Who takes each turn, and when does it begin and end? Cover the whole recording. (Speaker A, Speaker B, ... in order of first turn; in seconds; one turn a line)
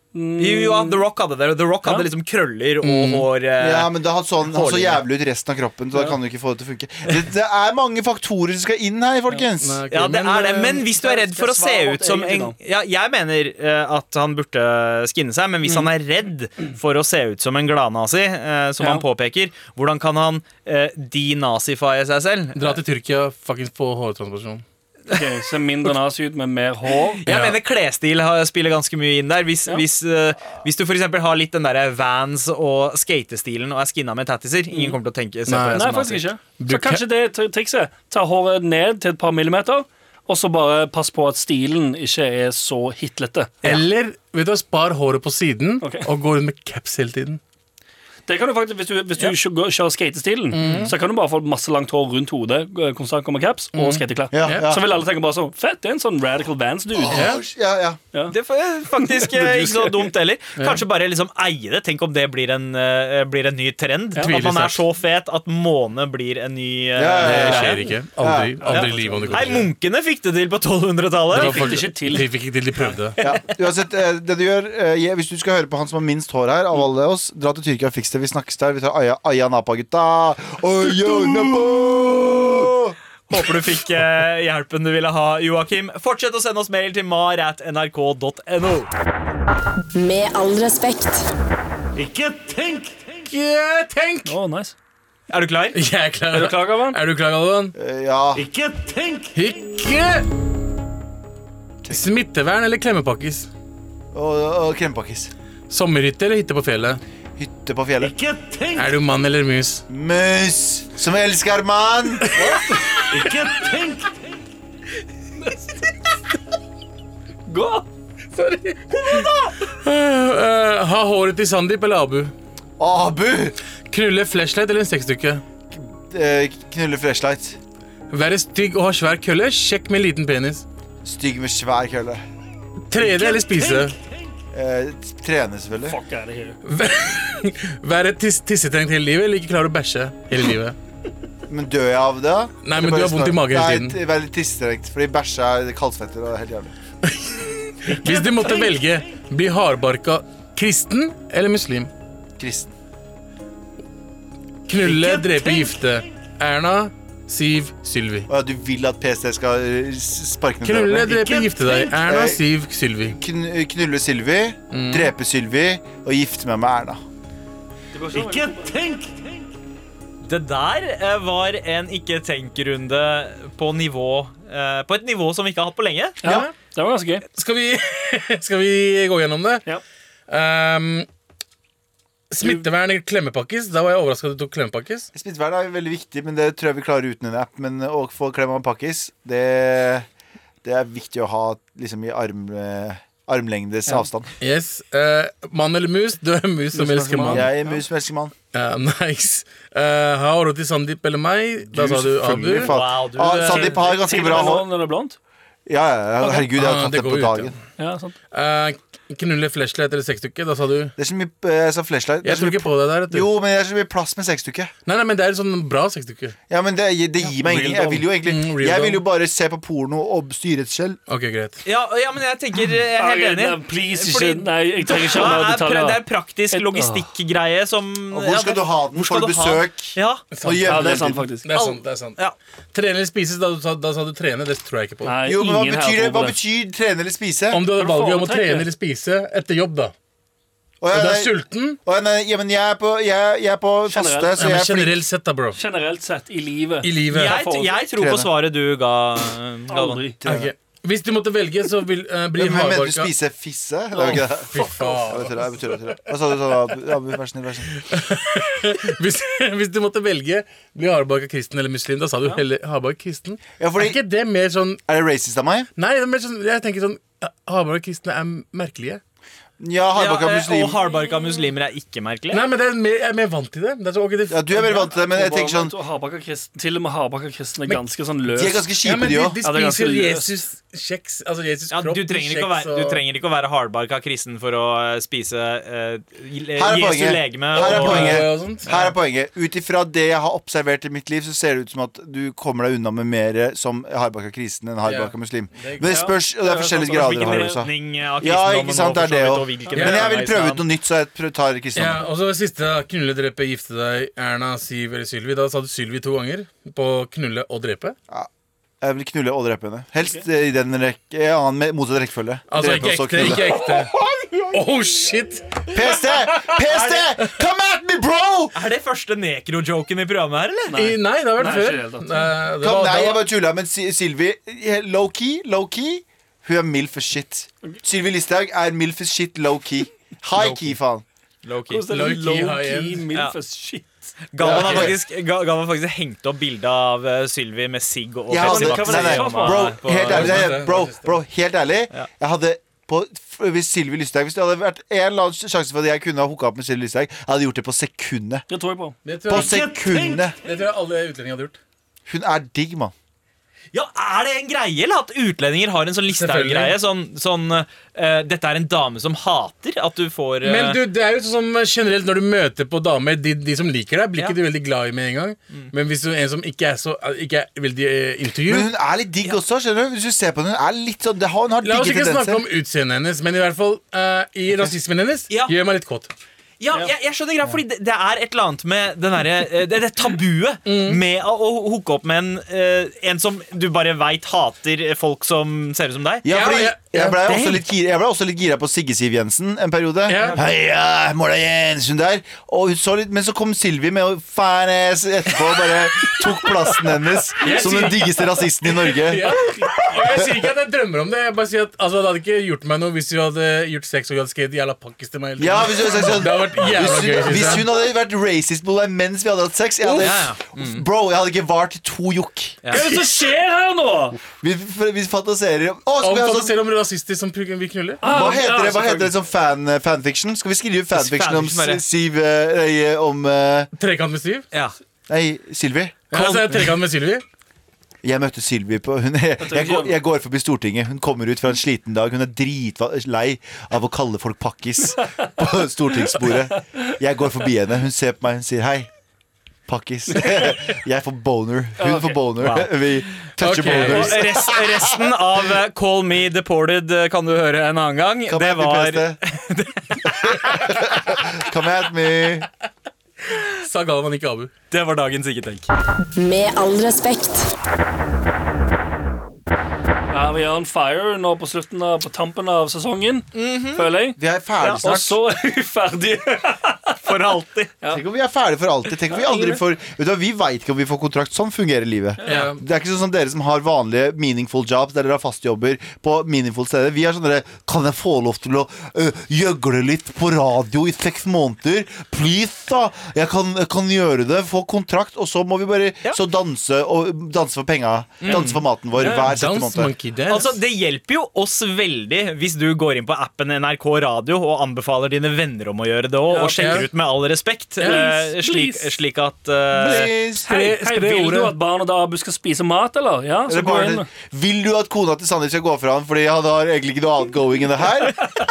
Speaker A: 0.1-1.1
Speaker B: 0.4-5.0
Speaker C: 2.8-3.3
Speaker D: 3.6-9.8
Speaker C: 9.6-10.8
Speaker B: 9.9-22.8
Speaker A: 10.8-12.6
Speaker A: 18.8-19.1
Speaker C: 22.6-24.6
Speaker A: 25.1-27.2
Speaker B: 27.2-36.3
Speaker C: 27.3-27.6
Speaker C: 35.5-35.9
Speaker A: 35.7-43.8
Speaker C: 36.6-37.1
Speaker C: 43.6-47.4
Speaker A: 45.8-46.1
Speaker A: 48.3-57.4
Speaker C: 50.5-51.0
Speaker C: 53.8-54.7
Speaker D: 54.3-54.9
Speaker D: 56.9-58.0
Speaker B: 58.3-67.8
Speaker A: 59.0-60.1
Speaker C: 64.2-64.8
Speaker D: 67.0-68.7
Speaker C: 67.2-69.7
Speaker A: 68.6-69.6
Speaker B: 68.7-71.8
Speaker A: 71.3-72.3
Speaker C: 71.3-73.2
Speaker D: 73.2-83.0
Speaker B: 83.3-88.9
Speaker E: 89.9-91.3
Speaker C: 92.0-94.4
Speaker A: 94.3-94.8
Speaker B: 95.3-95.8
Speaker C: 95.7-97.8
Speaker A: 96.3-97.0
Speaker D: 97.8-98.5
Speaker C: 98.6-100.3
Speaker D: 101.8-102.1
Speaker C: 101.9-103.5
Speaker D: 104.1-105.3
Speaker C: 105.7-107.0
Speaker D: 107.4-108.3
Speaker C: 108.6-109.8
Speaker D: 109.9-112.2
Speaker A: 112.3-113.9
Speaker A: 117.5-117.9
Speaker C: 118.4-122.3
Speaker D: 122.8-123.6
Speaker C: 123.9-125.4
Speaker D: 125.7-127.6
Speaker C: 128.1-130.7
Speaker D: 131.0-132.2
Speaker C: 132.9-134.0
Speaker D: 134.5-136.0
Speaker A: 135.8-136.6
Speaker C: 136.7-140.8
Speaker D: 141.5-146.7
Speaker C: 142.6-144.0
Speaker C: 147.0-151.9
Speaker B: 147.9-148.7
Speaker D: 152.4-152.7
Speaker C: 154.7-158.3
Speaker B: 154.8-155.7
Speaker D: 158.3-162.4
Speaker C: 160.6-163.2
Speaker D: 163.0-167.0
Speaker C: 164.7-165.1
Speaker A: 167.9-169.1
Speaker B: 170.2-176.2
Speaker A: 176.2-177.2
Speaker C: 176.2-176.5
Speaker C: 177.3-179.7
Speaker C: 180.3-181.1
Speaker C: 182.3-185.1
Speaker D: 185.1-190.1
Speaker D: 190.6-194.3
Speaker C: 194.4-197.5
Speaker D: 196.7-198.3
Speaker A: 197.2-197.8
Speaker C: 198.5-202.7
Speaker D: 201.7-204.7
Speaker B: 202.6-204.5
Speaker A: 203.4-205.2
Speaker D: 205.7-207.5
Speaker C: 206.2-207.6
Speaker A: 207.8-208.2
Speaker C: 208.3-210.9
Speaker D: 211.0-214.7
Speaker C: 212.2-213.3
Speaker C: 214.9-216.4
Speaker D: 216.5-221.0
Speaker A: 217.3-218.0
Speaker C: 218.2-219.0
Speaker C: 221.1-221.6
Speaker B: 221.7-230.2
Speaker A: 223.0-227.1
Speaker D: 228.1-231.2
Speaker C: 230.3-232.2
Speaker A: 230.7-231.5
Speaker B: 231.5-232.4
Speaker C: 232.7-235.2
Speaker A: 235.0-236.3
Speaker D: 235.2-237.6
Speaker C: 237.5-239.9
Speaker A: 237.8-238.7
Speaker D: 240.8-245.0
Speaker C: 240.9-241.8
Speaker A: 243.9-244.3
Speaker C: 244.4-245.6
Speaker A: 245.5-247.8
Speaker C: 246.8-247.4
Speaker B: 247.1-250.0
Speaker D: 248.0-248.3
Speaker A: 249.7-250.4
Speaker D: 250.2-250.5
Speaker C: 250.3-253.1
Speaker D: 252.3-257.8
Speaker A: 254.1-255.3
Speaker C: 254.1-255.9
Speaker C: 257.8-264.8
Speaker D: 263.6-264.0
Speaker D: 264.9-265.7
Speaker C: 265.8-269.0
Speaker D: 269.6-270.8
Speaker B: 269.9-272.4
Speaker C: 272.3-274.7
Speaker D: 274.3-275.8
Speaker A: 274.6-278.7
Speaker D: 278.3-279.4
Speaker C: 278.8-283.0
Speaker A: 279.4-280.3
Speaker B: 281.7-288.2
Speaker D: 286.6-302.0
Speaker C: 287.6-288.7
Speaker C: 294.8-296.0
Speaker A: 295.8-297.6
Speaker B: 296.8-300.6
Speaker C: 299.8-300.1
Speaker C: 301.8-308.0
Speaker D: 308.8-313.8
Speaker C: 312.5-316.6
Speaker D: 315.7-318.6
Speaker B: 318.5-320.7
Speaker A: 320.7-322.3
Speaker C: 320.8-323.2
Speaker D: 322.6-331.1
Speaker B: 331.4-331.9
Speaker A: 331.7-334.1
Speaker C: 331.9-333.1
Speaker B: 334.3-340.4
Speaker D: 334.4-335.0
Speaker C: 334.5-334.9
Speaker D: 338.3-348.5
Speaker A: 338.4-339.8
Speaker C: 340.1-341.1
Speaker A: 348.5-349.0
Speaker C: 349.1-351.6
Speaker D: 349.3-350.4
Speaker D: 352.1-352.9
Speaker B: 353.7-360.8
Speaker C: 356.1-356.8
Speaker C: 360.4-368.7
Speaker D: 368.5-372.4
Speaker C: 371.6-376.1
Speaker B: 375.3-375.6
Speaker B: 376.6-386.3
Speaker C: 380.7-381.0
Speaker D: 386.2-399.4
Speaker C: 386.3-387.6
Speaker C: 390.1-390.4
Speaker C: 397.4-398.2
Speaker A: 397.5-397.9
Speaker C: 398.8-407.7
Speaker A: 399.5-399.9
Speaker D: 400.1-400.4
Speaker D: 405.4-412.6
Speaker C: 409.8-410.1
Speaker B: 410.0-410.9
Speaker A: 412.7-414.2
Speaker C: 412.8-413.2
Speaker D: 414.4-416.6
Speaker C: 416.0-418.4
Speaker A: 418.0-419.1
Speaker D: 418.0-423.7
Speaker B: 420.9-421.8
Speaker C: 423.8-424.5
Speaker D: 425.1-426.7
Speaker C: 426.1-427.2
Speaker D: 428.0-438.9
Speaker A: 429.4-430.0
Speaker D: 439.7-445.1
Speaker A: 440.1-440.5
Speaker A: 441.8-442.2
Speaker B: 442.4-442.7
Speaker C: 443.4-444.2
Speaker B: 443.6-450.8
Speaker D: 448.3-449.2
Speaker D: 450.2-452.5
Speaker C: 453.4-454.5
Speaker B: 454.7-455.7
Speaker E: 456.2-457.5
Speaker A: 460.1-464.2
Speaker B: 463.4-463.9
Speaker D: 464.2-465.2
Speaker A: 464.7-466.9
Speaker B: 467.0-467.7
Speaker D: 467.9-489.9
Speaker A: 469.1-469.6
Speaker A: 472.2-472.5
Speaker C: 472.3-472.6
Speaker B: 488.2-488.6
Speaker A: 488.3-489.3
Speaker C: 489.1-490.6
Speaker B: 490.3-500.1
Speaker A: 496.3-496.9
Speaker C: 496.4-496.9
Speaker C: 497.8-498.1
Speaker A: 497.8-499.0
Speaker D: 499.7-500.5
Speaker C: 500.4-501.6
Speaker A: 500.4-504.1
Speaker D: 503.5-508.2